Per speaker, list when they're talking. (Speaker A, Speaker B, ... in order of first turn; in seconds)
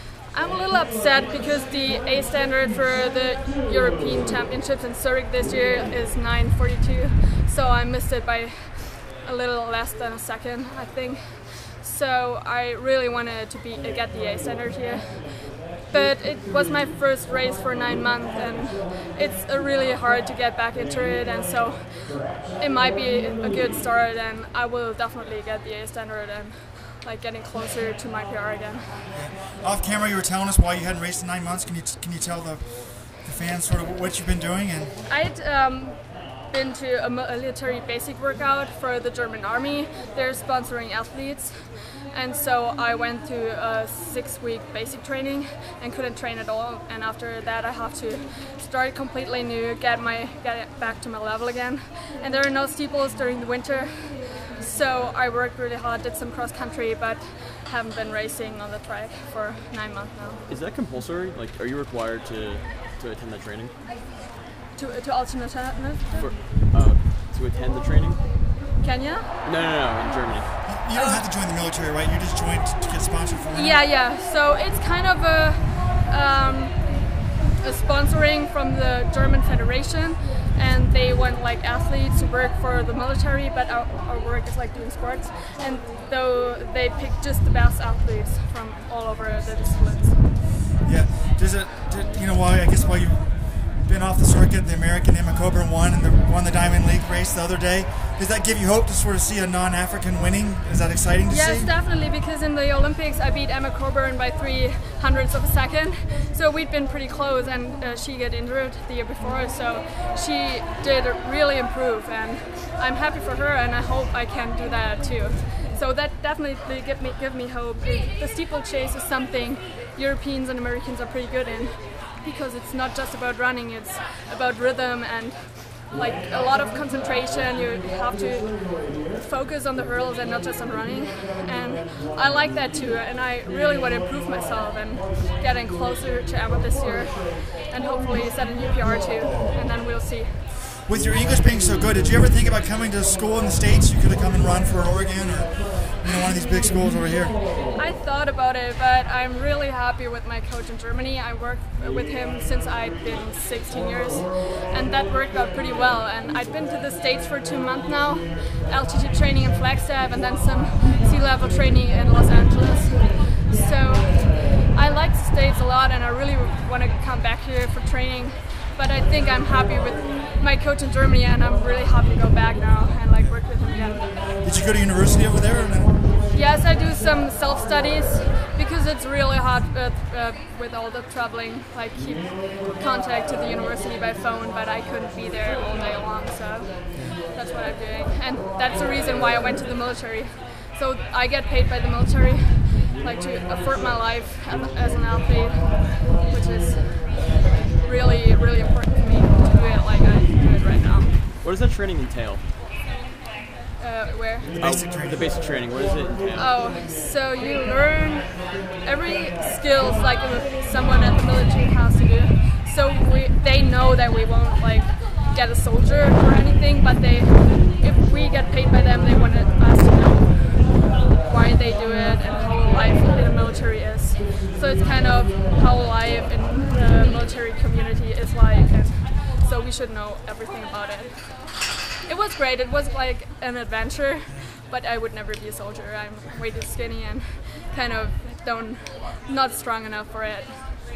Speaker A: 0.3-29.1, 35.1-60.4, 64.8-66.3, 68.8-69.4, 70.9-71.3, 73.5-77.0, 77.6-90.2, 101.3-140.5, 147.5-174.1, 176.3-201.1, 203.8-204.6, 206.3-231.6, 232.1-240.6
Speaker B: 29.1-35.0, 70.6-73.8, 90.6-101.7, 140.8-147.4, 174.2-176.2, 186.9-187.2, 204.5-205.3
Speaker C: 60.5-63.8, 66.1-68.2, 69.4-70.8, 200.8-202.4, 204.6-206.6